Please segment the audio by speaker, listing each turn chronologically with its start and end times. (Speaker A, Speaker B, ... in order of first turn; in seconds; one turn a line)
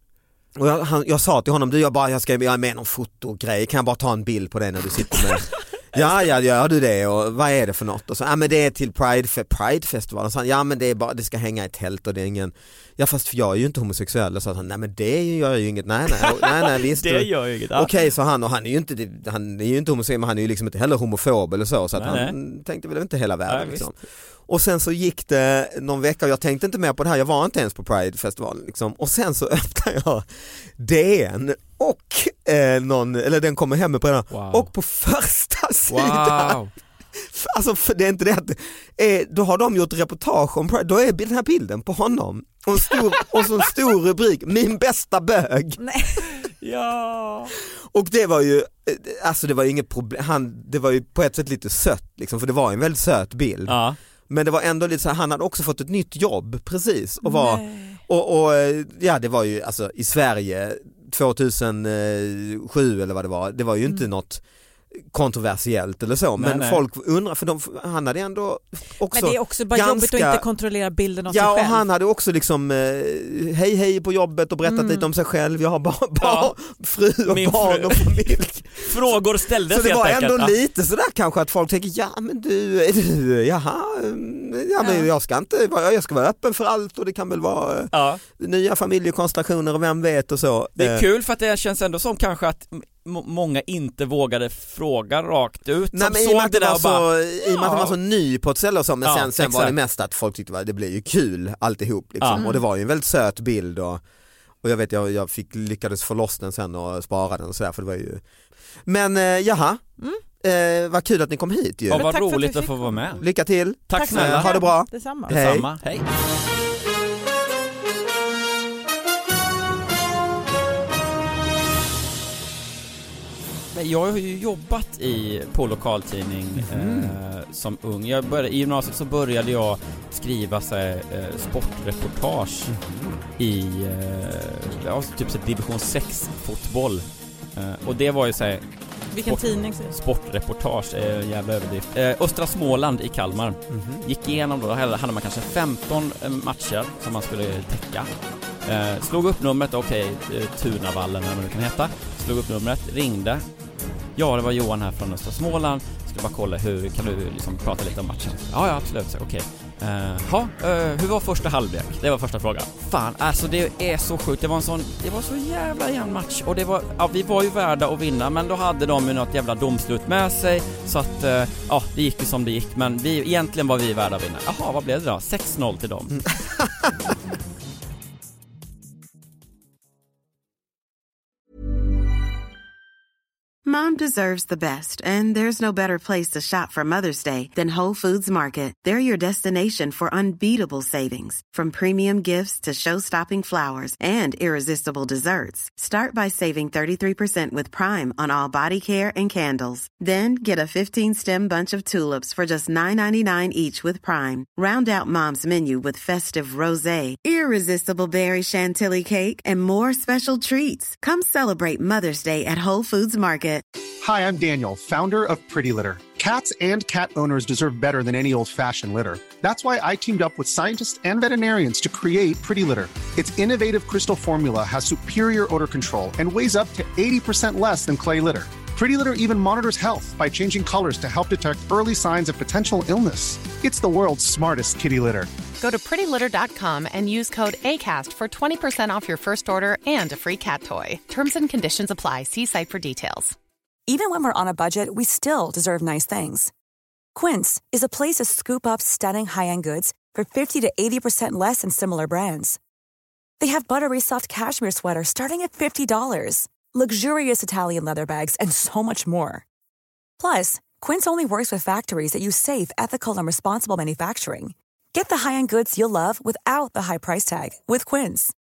Speaker A: 0.5-36.6
Speaker B: 16.2-17.9
Speaker B: 21.9-22.4
Speaker B: 23.5-23.8
Speaker B: 34.3-34.7
Speaker B: 35.9-36.7
Speaker A: 37.1-45.8
Speaker C: 45.8-46.2
Speaker B: 46.6-47.5
Speaker A: 47.7-70.4
Speaker B: 53.7-54.0
Speaker C: 57.2-58.0
Speaker B: 66.4-66.8
Speaker C: 69.1-71.8
Speaker A: 71.3-78.9
Speaker C: 74.6-75.0
Speaker B: 76.2-76.5
Speaker B: 77.3-80.5
Speaker A: 79.7-91.0
Speaker C: 84.8-85.1
Speaker B: 87.9-88.2
Speaker B: 90.8-97.9
Speaker A: 95.9-104.0
Speaker B: 99.0-99.7
Speaker C: 102.3-102.6
Speaker A: 104.6-108.2
Speaker A: 108.8-112.0
Speaker B: 111.9-113.2
Speaker C: 111.9-113.1
Speaker A: 113.2-115.7
Speaker B: 113.9-114.6
Speaker C: 113.9-115.3
Speaker B: 115.3-116.0
Speaker B: 123.7-132.7
Speaker A: 126.6-127.1
Speaker A: 132.7-133.2
Speaker B: 133.4-138.6
Speaker C: 139.1-139.9
Speaker B: 139.2-148.1
Speaker A: 143.7-144.1
Speaker B: 148.6-153.4
Speaker B: 154.2-176.2
Speaker A: 176.3-176.9
Speaker D: 183.6-213.6
Speaker E: 214.0-235.3
Speaker F: 235.6-243.3
Speaker G: 243.9-246.5
Speaker G: 247.1-252.6
Speaker G: 253.4-259.4
Speaker G: 260.2-268.3